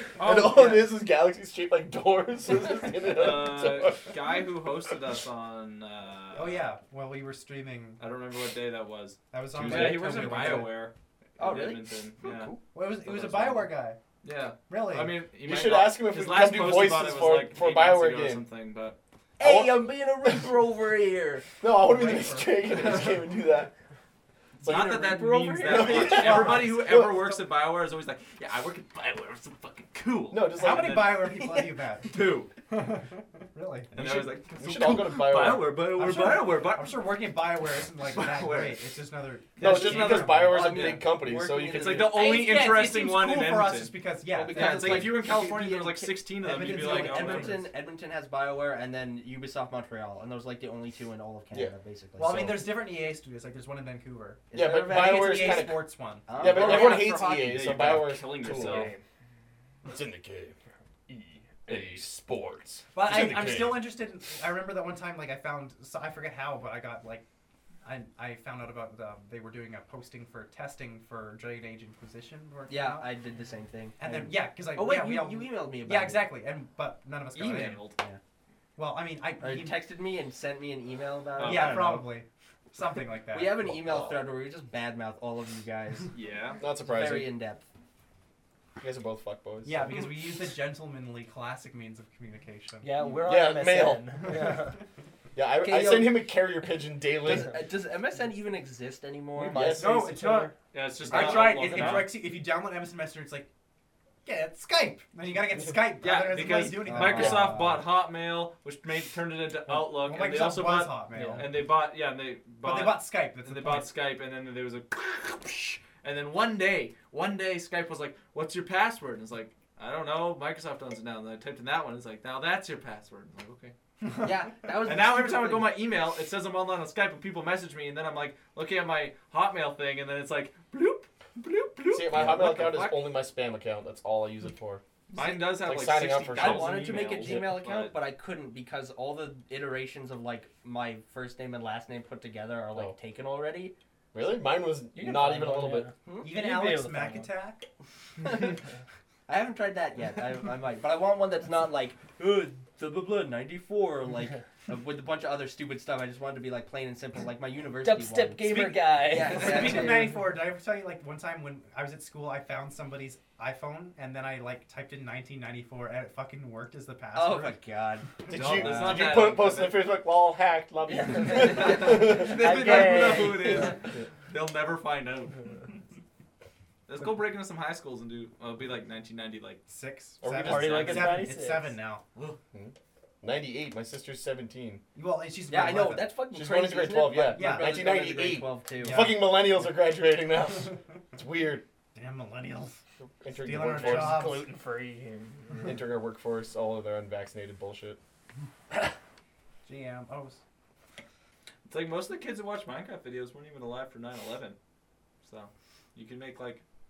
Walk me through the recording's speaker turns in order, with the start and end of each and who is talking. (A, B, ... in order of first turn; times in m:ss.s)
0:00.2-0:04.5 A
0:00.3-0:00.8 B
0:03.0-0:06.7 C
0:06.3-0:08.0 D
0:08.0-0:12.5 C
0:09.3-0:10.8 D
0:09.5-0:10.6 A
0:11.4-0:11.9 B
0:12.2-0:12.6 A
0:12.7-0:14.0 D
0:13.0-0:13.7 C
0:14.2-0:19.0 C
0:14.7-0:15.2 D
0:15.4-0:18.4 A
0:19.4-0:21.5 B
0:19.4-0:19.8 A
0:21.6-0:23.7 A
0:21.7-0:23.0 D
0:24.6-0:27.3 A
0:24.6-0:31.5 C
0:24.7-0:26.2 B
0:25.7-0:27.1 D
0:30.3-0:31.2 A
0:30.6-0:32.2 D
0:32.1-0:32.5 C
0:32.7-0:34.1 D
0:33.9-0:37.2 C
0:34.0-0:35.8 A
0:35.8-0:40.6 D
0:38.0-0:38.9 C
0:39.6-0:41.0 C
0:39.6-0:42.1 A
0:40.4-0:42.2 B
0:41.6-0:44.0 C
0:42.1-0:45.3 D
0:44.3-0:52.6 B
0:44.5-0:47.7 C
0:46.4-0:47.7 D
0:52.2-0:56.3 D
0:54.5-0:55.8 B
0:54.5-0:58.9 A
0:56.3-0:57.6 B
0:56.4-0:58.9 C
0:58.5-0:59.0 E
0:59.9-1:00.5 A
1:01.1-1:02.2 C
1:01.7-1:03.9 A
1:02.9-1:07.2 D
1:07.8-1:13.1 D
1:12.7-1:16.3 B
1:14.0-1:17.9 D
1:17.3-1:18.0 C
1:18.8-1:19.8 D
1:19.4-1:22.1 B
1:21.4-1:22.0 C
1:21.4-1:23.6 D
1:23.3-1:26.1 B
1:23.7-1:24.1 A
1:26.1-1:26.6 C
1:26.6-1:27.3 A
1:26.8-1:27.7 B
1:28.8-1:30.0 A
1:29.6-1:32.9 D
1:32.8-1:34.8 E
1:33.2-1:34.1 A
1:34.3-1:34.7 D
1:35.4-1:37.6 A
1:35.6-1:36.4 B
1:37.2-1:39.8 B
1:39.4-1:40.5 E
1:39.5-1:40.2 A
1:39.8-1:40.5 D
1:40.7-1:42.2 C
1:41.1-1:43.5 D
1:41.1-1:42.1 E
1:44.2-1:47.6 D
1:46.0-2:03.7 C
1:46.8-1:47.8 B
1:49.7-1:51.6 D
1:51.1-1:51.5 E
1:52.6-1:53.9 D
2:04.2-2:05.8 B
2:04.8-2:13.1 C
2:11.9-2:14.8 A
2:15.1-2:18.0 C
2:15.5-2:17.6 A
2:16.3-2:23.8 B
2:24.1-2:25.9 A
2:24.9-2:27.3 E
2:26.0-2:26.3 B
2:26.2-2:27.7 D
2:28.2-2:28.6 B
2:29.3-2:40.1 B
2:37.8-2:40.2 E
2:39.2-2:47.6 D
2:47.2-2:48.9 B
2:48.3-2:52.4 A
2:48.3-2:49.8 C
2:50.9-2:53.8 E
2:51.3-2:55.4 C
2:56.9-2:59.6 C
2:59.7-3:02.0 D
3:00.2-3:01.1 A
3:00.3-3:01.8 E
3:00.4-3:01.2 C
3:02.5-3:04.8 A
3:05.0-3:06.1 D
3:05.5-3:09.1 B
3:06.3-3:11.6 A
3:07.3-3:07.9 D
3:08.8-3:09.3 D
3:12.0-3:12.8 D
3:13.2-3:14.3 A
3:13.3-3:14.5 D
3:13.7-3:15.7 E
3:15.6-3:18.0 A
3:19.6-3:20.4 D
3:21.7-3:24.6 C
3:25.2-3:26.6 C